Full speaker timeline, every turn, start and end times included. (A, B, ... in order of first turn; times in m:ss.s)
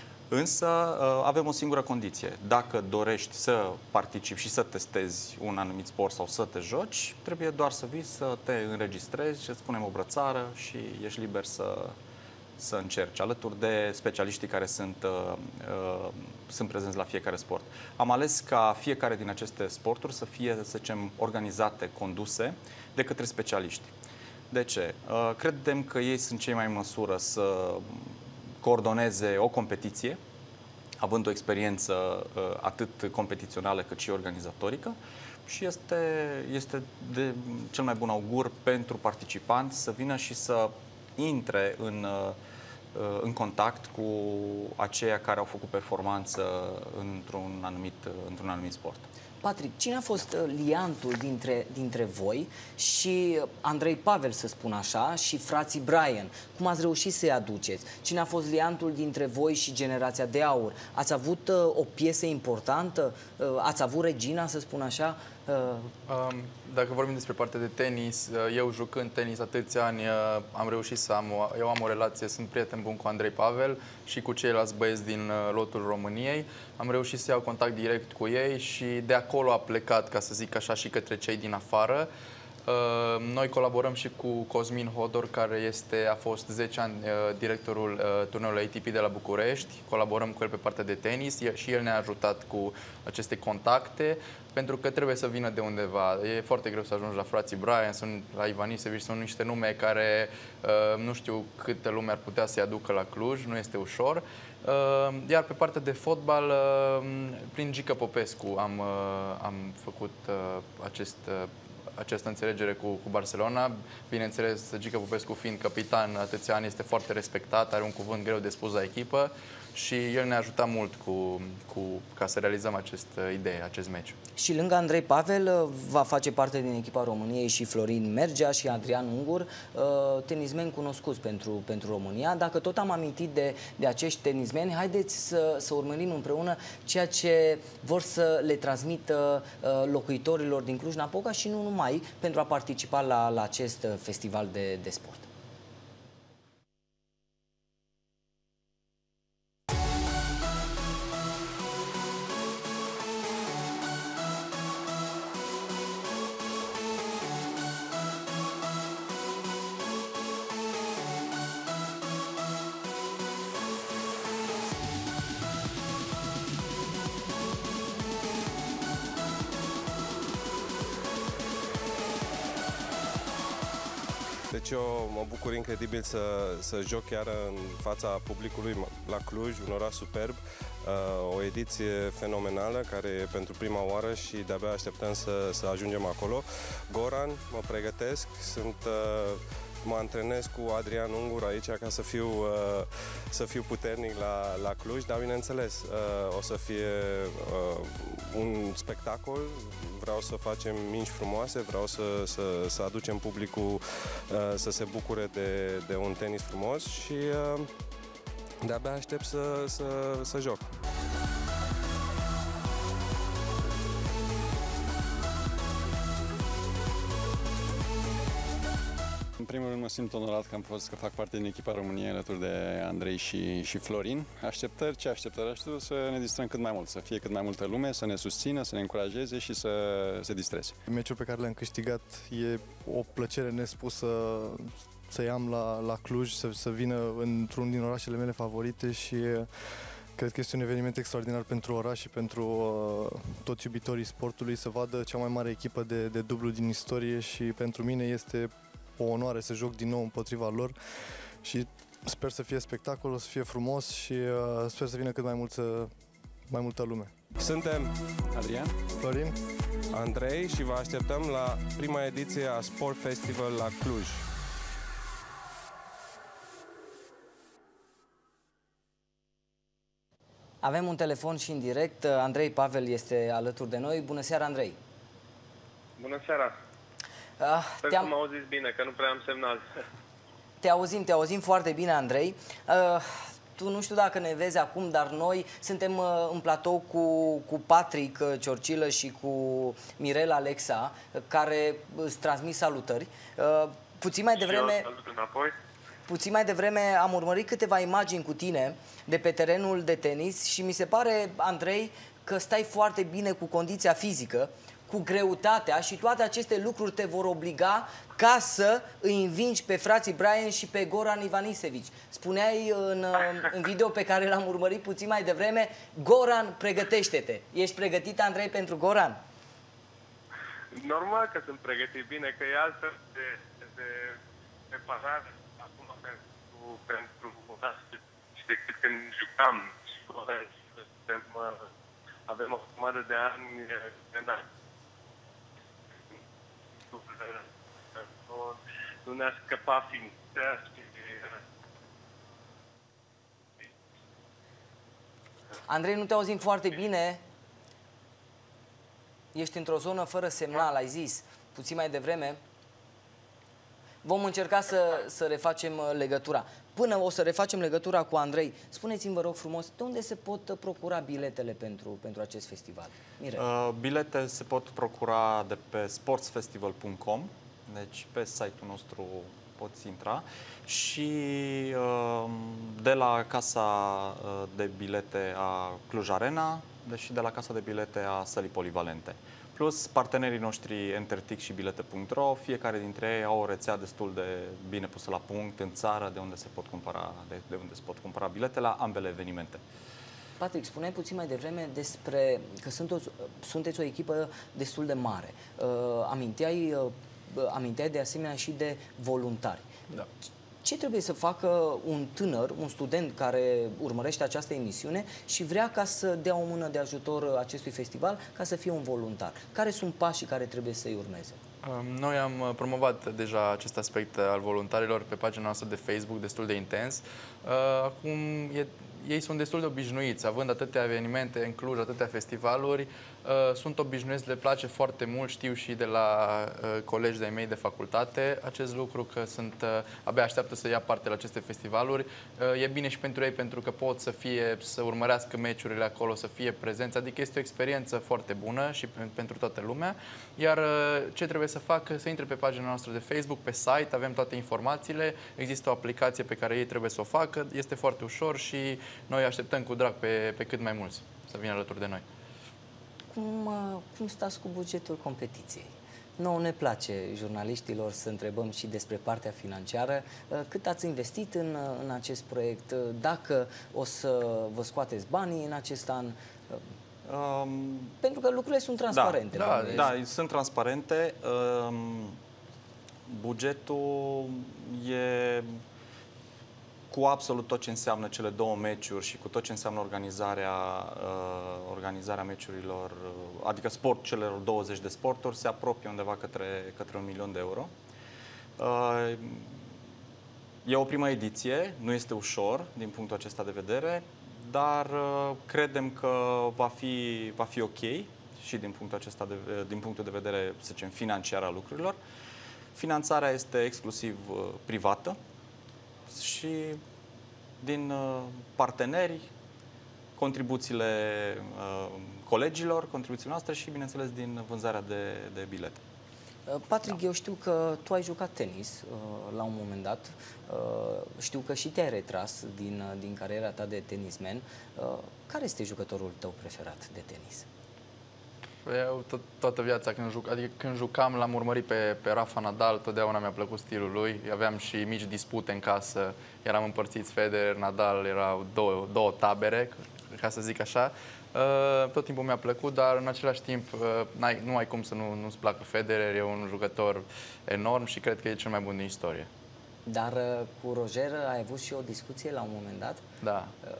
0:00.3-0:12.0 A
0:12.6-0:23.9 A
0:24.5-0:30.2 A
0:31.0-0:42.4 A
0:42.9-0:49.1 A
0:49.4-1:05.9 B
1:06.1-1:22.1 C
1:22.6-2:04.2 C
2:04.4-2:25.3 B
2:54.5-3:27.7 D
3:28.6-3:30.7 D
3:39.4-3:50.8 E
3:50.9-4:15.9 F
4:16.5-4:17.1 F
4:17.4-4:17.9 D
4:18.3-4:18.8 E
4:18.9-4:19.4 F
4:19.9-4:24.2 D
4:30.6-4:34.8 B
4:36.0-4:36.5 G
4:37.4-4:38.1 B
4:37.8-4:39.8 G
4:40.6-4:54.8 B
4:54.4-4:55.6 G
4:56.1-5:19.2 B
5:20.7-5:24.2 G
5:24.7-5:31.7 G
5:32.3-5:34.4 G
5:36.9-5:37.4 G
5:38.0-5:41.4 G
5:45.7-5:47.2 B
5:49.3-5:52.4 B
5:54.0-6:03.4 B
6:03.4-6:29.6 A
6:30.4-6:39.7 B
6:40.6-6:51.4 B
6:51.6-7:32.0 C
7:33.1-7:46.6 B
7:47.0-7:48.0 A
7:48.0-7:49.9 B
7:48.9-7:49.2 A
7:49.3-7:49.8 C
7:49.7-7:52.2 A
7:53.1-7:55.6 A
7:56.9-8:07.7 A
8:08.6-8:09.6 A
8:10.6-8:22.0 A
8:22.7-8:25.2 A
8:26.1-8:26.8 A
8:27.6-8:29.3 A
8:30.2-8:35.8 A
8:36.5-8:47.4 B
8:48.6-9:09.3 C
9:09.8-9:13.0 B
9:13.2-9:13.5 C